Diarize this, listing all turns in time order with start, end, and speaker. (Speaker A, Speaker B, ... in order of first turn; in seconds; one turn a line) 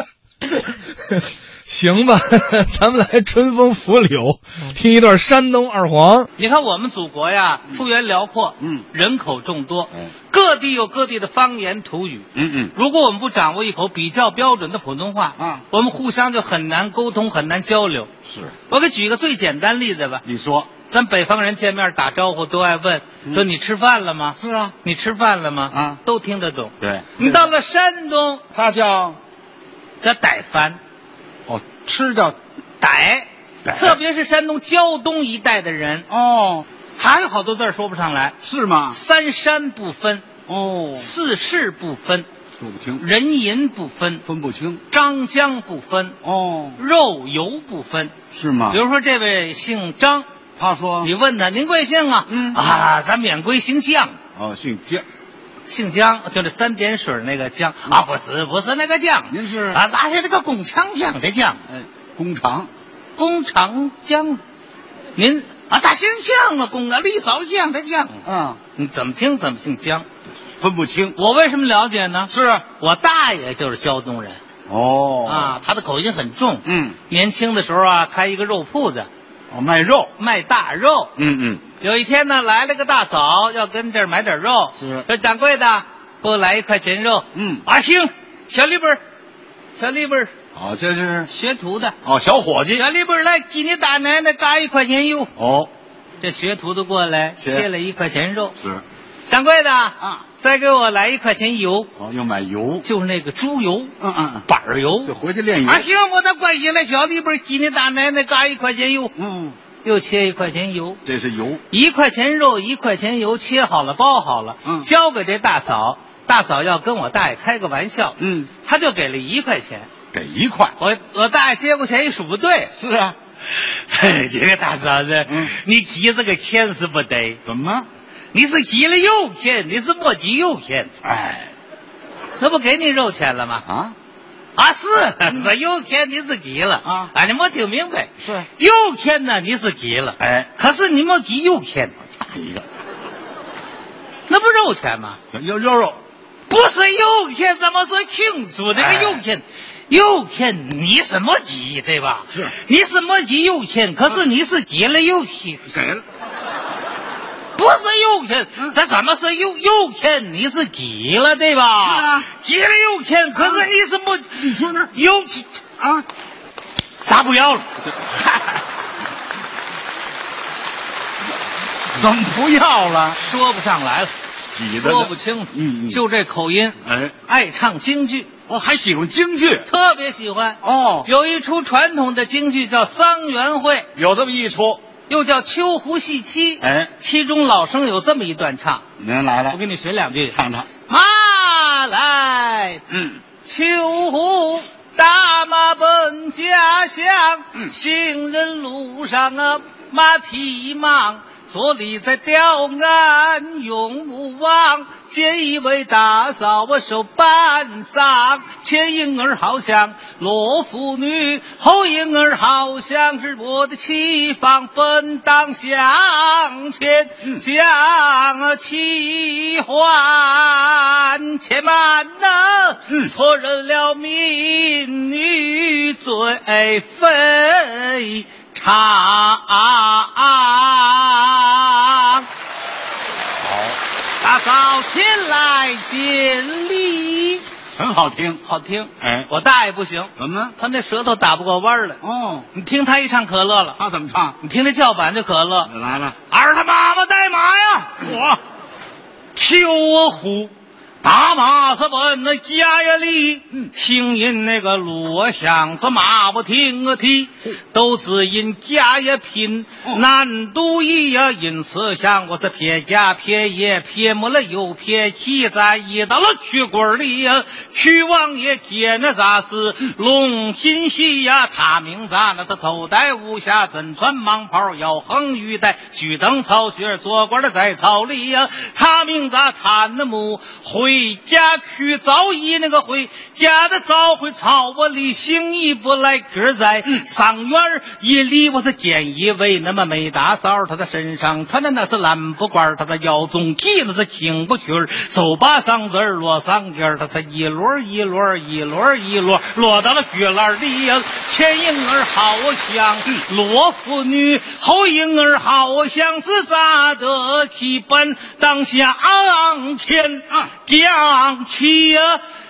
Speaker A: 1.2-6.3
Speaker B: 6.3-18.1
Speaker C: 12.3-12.7
Speaker C: 15.4-15.6
Speaker C: 18.3-18.5
Speaker B: 18.7-20.2
Speaker C: 20.2-20.7
Speaker B: 20.8-28.4
Speaker C: 24.4-24.7
Speaker C: 25.7-26.0
Speaker C: 26.8-27.5
Speaker C: 28.5-29.2
Speaker B: 30.0-30.8
Speaker C: 31.5-32.4
Speaker B: 32.8-36.0
Speaker C: 33.6-34.0
Speaker C: 36.1-36.6
Speaker B: 37.0-38.4
Speaker C: 38.4-39.0
Speaker B: 38.9-40.2
Speaker C: 40.5-41.1
Speaker B: 41.0-42.3
Speaker C: 42.6-43.0
Speaker B: 43.0-44.2
Speaker C: 44.2-44.8
Speaker B: 44.9-46.2
Speaker C: 46.2-46.8
Speaker B: 46.8-48.1
Speaker C: 48.3-48.8
Speaker B: 48.7-50.3
Speaker C: 50.6-51.1
Speaker B: 51.0-54.2
Speaker C: 52.3-52.6
Speaker C: 54.4-55.0
Speaker B: 55.7-61.6
Speaker C: 59.3-59.8
Speaker C: 61.7-62.7
Speaker B: 63.1-64.4
Speaker B: 65.2-68.2
Speaker C: 68.2-68.6
Speaker B: 68.8-70.0
Speaker C: 70.6-71.2
Speaker B: 71.1-74.4
Speaker C: 72.3-72.6
Speaker C: 74.7-75.6
Speaker B: 75.2-79.1
Speaker C: 76.6-77.0
Speaker C: 79.5-80.1
Speaker B: 80.2-81.1
Speaker C: 81.2-81.6
Speaker B: 81.8-89.0
Speaker C: 84.8-85.1
Speaker C: 87.3-87.6
Speaker B: 89.8-90.3
Speaker C: 90.5-91.3
Speaker B: 91.3-92.0
Speaker C: 92.0-92.8
Speaker B: 92.7-95.3
Speaker C: 95.4-95.7
Speaker B: 96.2-98.5
Speaker C: 97.4-97.7
Speaker C: 98.6-98.8
Speaker B: 99.3-101.9
Speaker C: 102.0-102.8
Speaker B: 102.8-103.9
Speaker C: 104.0-104.5
Speaker B: 104.5-109.1
Speaker C: 105.0-105.9
Speaker C: 109.2-109.5
Speaker B: 109.8-111.0
Speaker C: 111.0-111.6
Speaker B: 111.7-119.9
Speaker C: 118.2-118.5
Speaker C: 120.1-120.8
Speaker B: 120.8-122.7
Speaker C: 122.8-123.2
Speaker B: 123.5-127.4
Speaker C: 125.3-125.5
Speaker C: 127.5-127.9
Speaker B: 128.3-130.9
Speaker C: 131.0-131.5
Speaker B: 132.4-133.6
Speaker C: 133.6-133.9
Speaker B: 134.6-141.9
Speaker C: 136.8-137.1
Speaker C: 140.2-140.5
Speaker C: 142.2-142.6
Speaker B: 144.3-145.2
Speaker C: 145.3-146.0
Speaker B: 146.5-155.6
Speaker C: 148.8-149.2
Speaker C: 155.7-156.0
Speaker B: 157.6-165.6
Speaker C: 161.8-162.3
Speaker C: 163.4-163.6
Speaker C: 164.4-164.9
Speaker C: 165.8-166.1
Speaker B: 167.0-167.7
Speaker C: 167.9-168.6
Speaker C: 171.9-173.2
Speaker B: 173.2-174.1
Speaker C: 174.5-176.0
Speaker B: 174.7-178.3
Speaker C: 176.8-177.1
Speaker C: 178.5-179.7
Speaker B: 179.7-183.9
Speaker C: 180.6-181.1
Speaker C: 183.9-184.8
Speaker B: 185.1-188.8
Speaker C: 186.6-186.9
Speaker C: 189.0-189.6
Speaker B: 189.5-192.8
Speaker C: 190.3-190.7
Speaker C: 192.9-193.2
Speaker B: 193.4-232.3
Speaker C: 233.4-233.8
Speaker B: 234.2-237.4
Speaker C: 237.8-238.4
Speaker B: 238.4-242.0
Speaker C: 239.0-239.3
Speaker C: 240.2-240.5
Speaker C: 242.0-242.5
Speaker B: 242.5-243.8
Speaker C: 243.8-244.4
Speaker B: 244.4-245.7
Speaker C: 245.7-246.2
Speaker B: 246.3-248.4
Speaker B: 249.3-312.2